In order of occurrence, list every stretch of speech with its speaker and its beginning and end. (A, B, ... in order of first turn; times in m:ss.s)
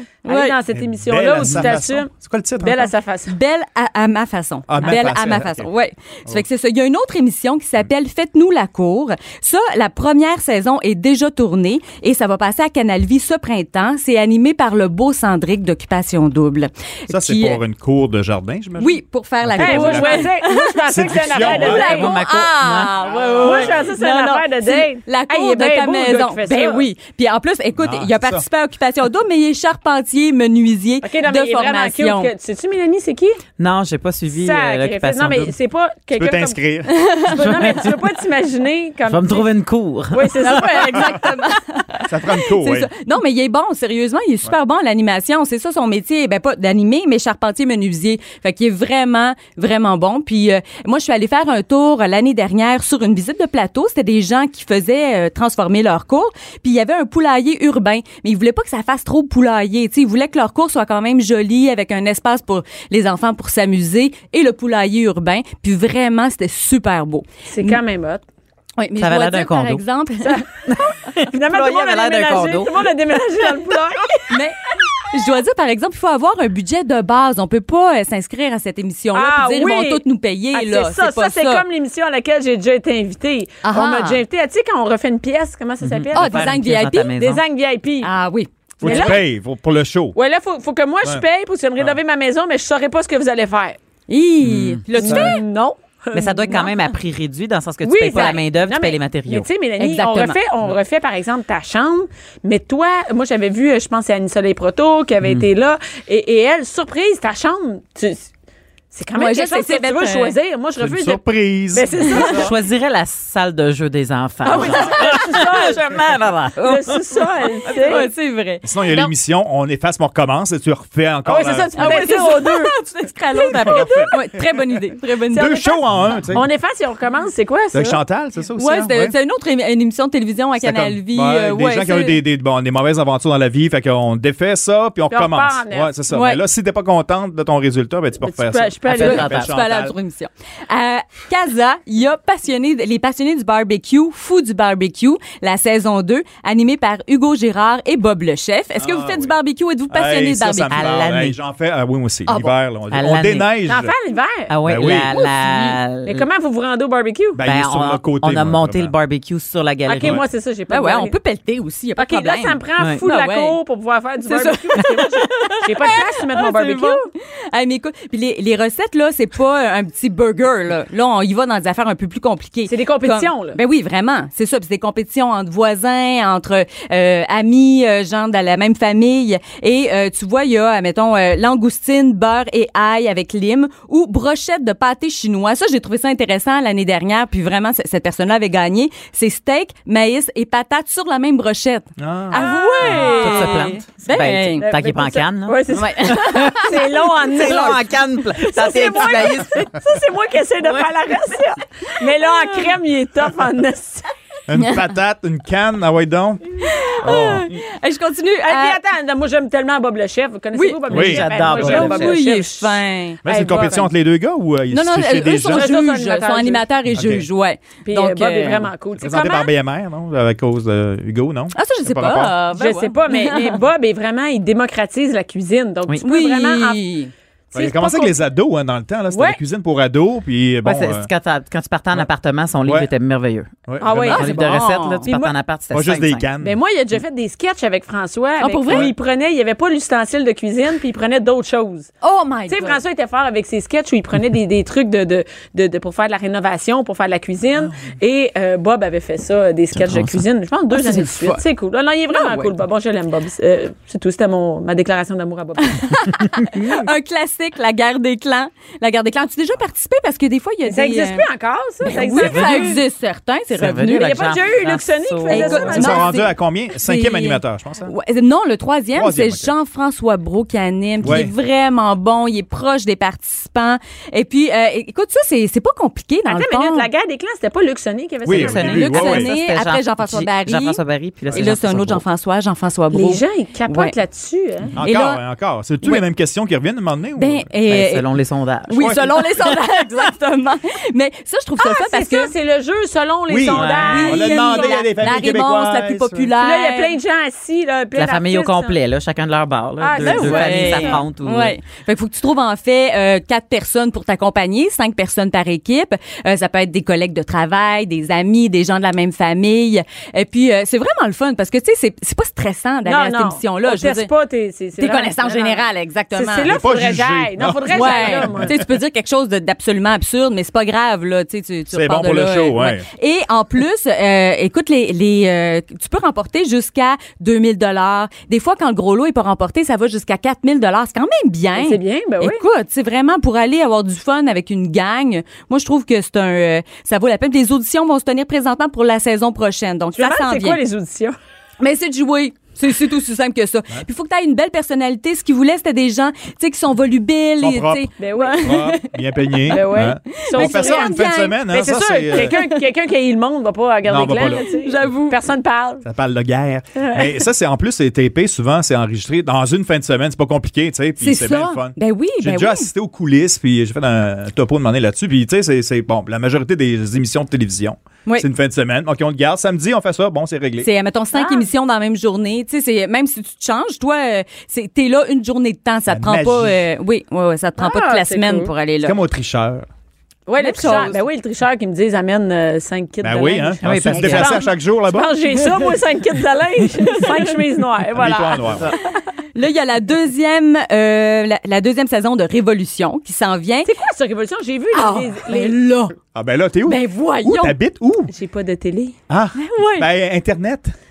0:00.2-0:00.6 A
0:00.2-0:03.3 B
0:00.7-0:02.9 C
0:03.3-0:17.6 A
0:04.7-0:05.7 C
0:17.1-0:20.3 C
0:18.8-0:32.3 A
0:19.6-0:22.1 B
0:20.9-0:21.8 C
0:21.7-0:23.8 D
0:23.4-0:26.8 B
0:27.8-0:28.4 C
0:31.0-0:33.4 B
0:33.6-0:35.5 D
0:34.3-0:36.6 B
0:36.1-0:37.1 C
0:36.9-0:37.4 A
0:37.1-0:39.5 B
0:37.3-0:37.9 D
0:39.1-0:40.4 D
0:40.1-0:41.1 B
0:40.4-1:07.8 A
0:42.1-0:42.9 C
1:07.5-1:08.2 B
1:08.8-1:10.4 A
1:09.0-1:09.8 D
1:10.7-1:12.9 D
1:11.1-1:14.3 B
1:14.3-1:14.6 A
1:15.1-1:21.6 A
1:19.1-1:20.0 B
1:20.5-1:26.6 B
1:23.6-1:24.2 A
1:25.8-1:27.4 D
1:26.1-1:27.3 A
1:27.2-1:28.1 B
1:28.0-1:29.2 A
1:28.8-1:30.2 C
1:28.8-1:29.3 B
1:30.1-1:33.8 B
1:34.1-1:35.4 A
1:34.4-1:34.8 D
1:35.0-1:36.7 B
1:35.0-1:35.3 C
1:36.1-1:39.5 D
1:37.8-1:48.3 B
1:39.8-1:40.4 A
1:48.9-1:52.5 B
1:49.1-1:50.4 A
1:50.8-1:52.2 C
1:52.1-1:52.4 A
1:52.2-1:57.8 D
1:54.4-1:58.1 B
1:54.4-1:55.1 A
1:57.7-1:59.1 A
1:58.6-2:02.1 C
2:01.2-2:02.7 B
2:01.8-2:05.8 A
2:03.4-2:04.4 C
2:03.6-2:04.1 B
2:05.3-2:06.5 C
2:05.3-2:08.0 B
2:07.7-2:09.1 C
2:08.6-2:12.2 A
2:10.6-2:19.9 C
2:15.1-2:15.9 B
2:16.1-2:16.4 A
2:18.2-2:19.3 B
2:18.9-2:19.5 D
2:19.0-2:30.9 A
2:28.8-2:29.3 C
2:29.9-2:33.9 C
2:30.7-2:31.4 D
2:32.3-2:32.5 A
2:32.9-2:33.5 D
2:33.6-2:34.6 B
2:34.5-2:36.2 D
2:34.6-2:35.1 C
2:35.1-2:35.8 A
2:36.0-2:37.4 B
2:37.3-2:38.9 C
2:37.4-2:40.2 D
2:39.8-2:41.1 B
2:40.0-2:40.2 C
2:40.7-2:43.6 A
2:42.0-2:47.1 B
2:44.2-3:14.8 A
2:52.7-2:53.6 B
3:12.0-3:12.4 C
3:12.3-3:13.7 B
3:12.8-3:19.7 D
3:14.6-3:17.8 B
3:15.7-3:16.9 A
3:18.4-3:24.1 B
3:22.2-3:22.7 A
3:24.5-3:27.5 C
3:26.6-3:28.8 A
3:28.4-3:33.9 B
3:30.5-3:30.8 A
3:30.9-3:31.9 C
3:30.9-3:32.2 D
3:31.4-3:33.2 A
3:33.2-3:35.8 C
3:34.7-3:38.7 A
3:35.5-3:36.6 B
3:36.9-3:37.3 C
3:37.8-3:39.5 B
3:39.0-3:42.4 C
3:41.5-3:43.6 A
3:42.5-3:46.8 B
3:46.0-3:47.1 A
3:47.5-3:51.1 C
3:47.5-3:48.1 B
3:49.1-3:49.4 B
3:50.6-3:56.3 D
3:53.7-3:54.5 C
3:53.8-3:54.2 B
3:53.9-3:55.1 A
3:55.0-3:55.3 B
3:55.7-3:56.6 C
3:56.4-4:01.9 B
3:58.4-3:58.9 A
4:02.0-4:02.8 A
4:02.5-4:16.0 B
4:09.7-4:10.2 D
4:10.7-4:11.4 A
4:12.1-4:12.5 A
4:15.7-4:21.2 A
4:20.6-4:22.8 B
4:21.8-4:24.2 A
4:22.2-4:22.8 D
4:23.5-4:25.9 D
4:23.9-4:26.2 B
4:25.3-4:36.9 A
4:25.6-4:27.9 C
4:28.9-4:29.5 C
4:31.0-4:31.3 C
4:36.3-4:39.0 B
4:38.2-4:39.3 C
4:38.2-4:42.0 D
4:38.7-4:43.9 A
4:41.3-4:41.6 C
4:42.9-4:44.8 B
4:44.8-4:47.5 C
4:44.8-4:45.2 A
4:47.2-4:48.0 A
4:47.7-4:49.2 D
4:48.7-4:52.3 A
4:48.8-4:49.1 C
4:51.6-4:54.8 B
4:53.3-4:56.3 C
4:53.5-4:54.2 D
4:53.8-4:57.0 A
4:56.4-4:58.8 B
4:57.9-5:01.5 D
4:59.8-5:01.0 B
5:00.0-5:14.1 A
5:12.8-5:18.5 B
5:14.8-5:16.5 A
5:16.4-5:18.6 C
5:17.7-5:40.6 A
5:21.7-5:22.9 C
5:31.5-5:32.4 B
5:40.0-5:41.2 B
5:41.6-5:51.4 A
5:47.4-5:47.9 C
5:48.0-5:48.5 B
5:48.4-5:52.3 C
5:49.5-5:55.8 B
5:52.1-5:52.6 A
5:53.8-5:54.4 C
5:54.2-5:55.2 A
5:55.8-6:10.7 C
5:56.8-5:57.1 B
6:01.0-6:02.7 A
6:10.6-6:19.0 A
6:11.1-6:11.5 B
6:15.9-6:16.6 C
6:17.6-6:18.5 B
6:18.8-6:19.7 C
6:20.3-6:28.8 B
6:20.4-6:21.0 A
6:23.0-6:25.1 C
6:23.6-6:24.3 D
6:27.9-6:28.7 C
6:29.2-6:33.7 A
6:33.6-6:35.6 B
6:34.7-6:36.0 A
6:36.1-6:38.1 C
6:36.6-6:37.6 A
6:38.1-6:39.0 B
6:39.1-6:40.7 C
6:39.3-6:39.9 A